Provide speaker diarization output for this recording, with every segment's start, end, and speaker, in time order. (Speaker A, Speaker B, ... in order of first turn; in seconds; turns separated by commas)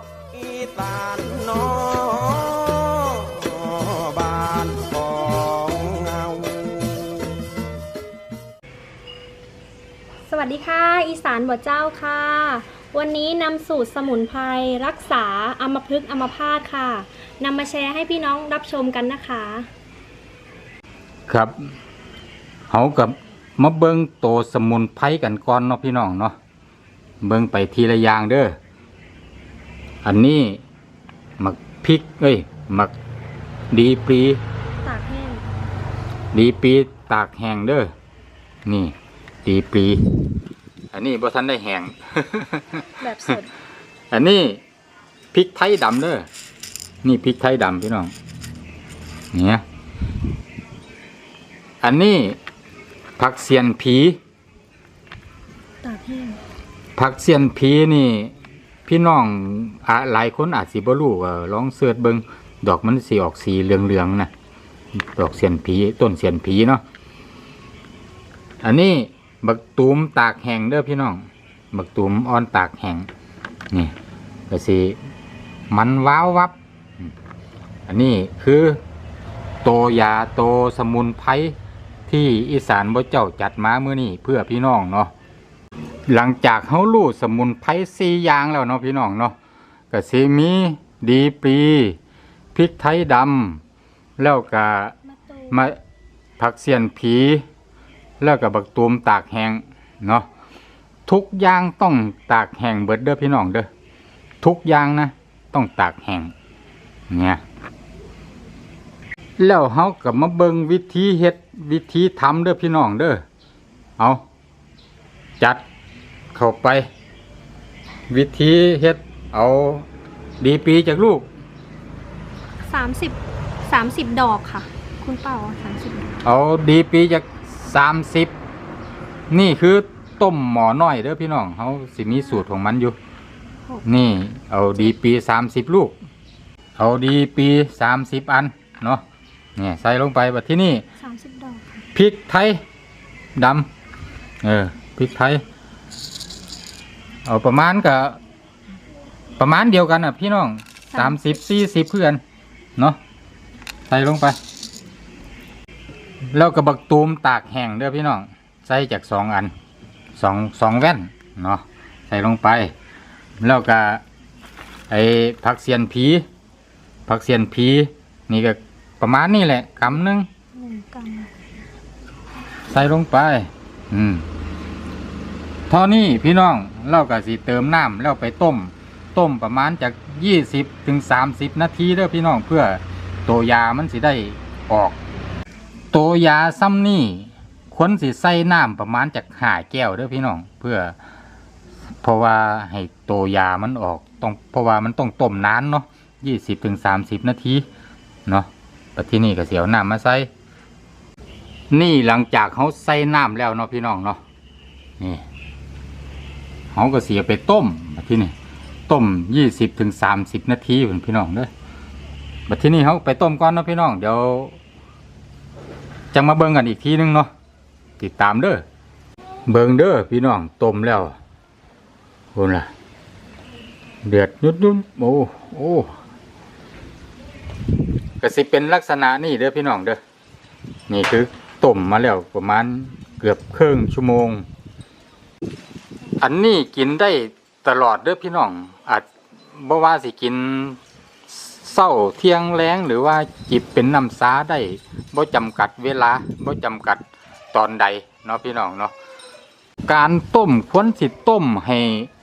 Speaker A: 0.7-2.8, Speaker A: 4.1-6.3, Speaker B: 10.3-19.7, Speaker C: 21.3-21.5, Speaker C: 22.7-26.4, Speaker C: 27.2-28.6, Speaker C: 30.0-30.6, Speaker C: 31.4-32.9, Speaker C: 33.7-34.4, Speaker B: 34.8-35.5, Speaker C: 36.3-37.9, Speaker C: 38.7-40.0, Speaker C: 40.9-43.0, Speaker B: 43.0-43.5, Speaker C: 44.1-44.6, Speaker C: 45.3-46.3, Speaker C: 47.0-48.1, Speaker C: 49.3-49.6, Speaker C: 51.8-52.4, Speaker C: 53.2-54.2, Speaker B: 55.8-56.4, Speaker C: 57.0-58.3, Speaker C: 58.9-64.3, Speaker C: 65.0-66.8, Speaker C: 68.6-73.1, Speaker C: 74.5-75.0, Speaker C: 75.7-77.1, Speaker C: 77.9-78.8, Speaker C: 79.6-81.5, Speaker C: 82.1-85.1, Speaker C: 86.1-89.4, Speaker C: 89.9-92.0, Speaker C: 92.5-93.6, Speaker C: 94.2-95.0, Speaker B: 95.2-95.5, Speaker C: 95.5-95.8, Speaker C: 96.4-97.4, Speaker C: 98.2-100.3, Speaker C: 101.1-103.7, Speaker C: 104.4-106.3, Speaker C: 107.1-107.4, Speaker C: 109.4-113.2, Speaker C: 114.0-114.2, Speaker C: 116.3-116.9, Speaker C: 118.1-119.9, Speaker C: 120.4-121.3, Speaker B: 122.7-126.2, Speaker C: 126.2-128.3, Speaker C: 129.3-133.0, Speaker C: 133.8-136.0, Speaker C: 136.8-139.0, Speaker C: 139.6-140.8, Speaker B: 141.0-141.8, Speaker C: 141.9-142.6, Speaker C: 143.4-143.7, Speaker C: 144.4-145.4, Speaker C: 147.3-148.2, Speaker C: 149.4-152.2, Speaker B: 150.9-151.4, Speaker C: 153.9-154.4, Speaker C: 156.3-159.5, Speaker C: 160.2-162.7, Speaker C: 163.4-164.0, Speaker C: 164.9-166.3, Speaker C: 167.1-170.3, Speaker B: 170.6-171.3, Speaker C: 172.7-174.2, Speaker C: 175.7-185.0, Speaker C: 185.9-191.0, Speaker C: 192.0-197.7, Speaker C: 198.3-200.3, Speaker C: 201.7-204.2, Speaker C: 205.0-205.3, Speaker C: 206.7-208.3, Speaker C: 208.9-211.5, Speaker C: 212.5-214.6, Speaker C: 216.1-217.3, Speaker C: 218.0-218.6, Speaker C: 219.5-221.2, Speaker C: 222.3-222.7, Speaker C: 224.1-225.9, Speaker C: 228.2-230.0, Speaker C: 230.9-234.4, Speaker C: 236.2-248.9, Speaker C: 249.9-252.1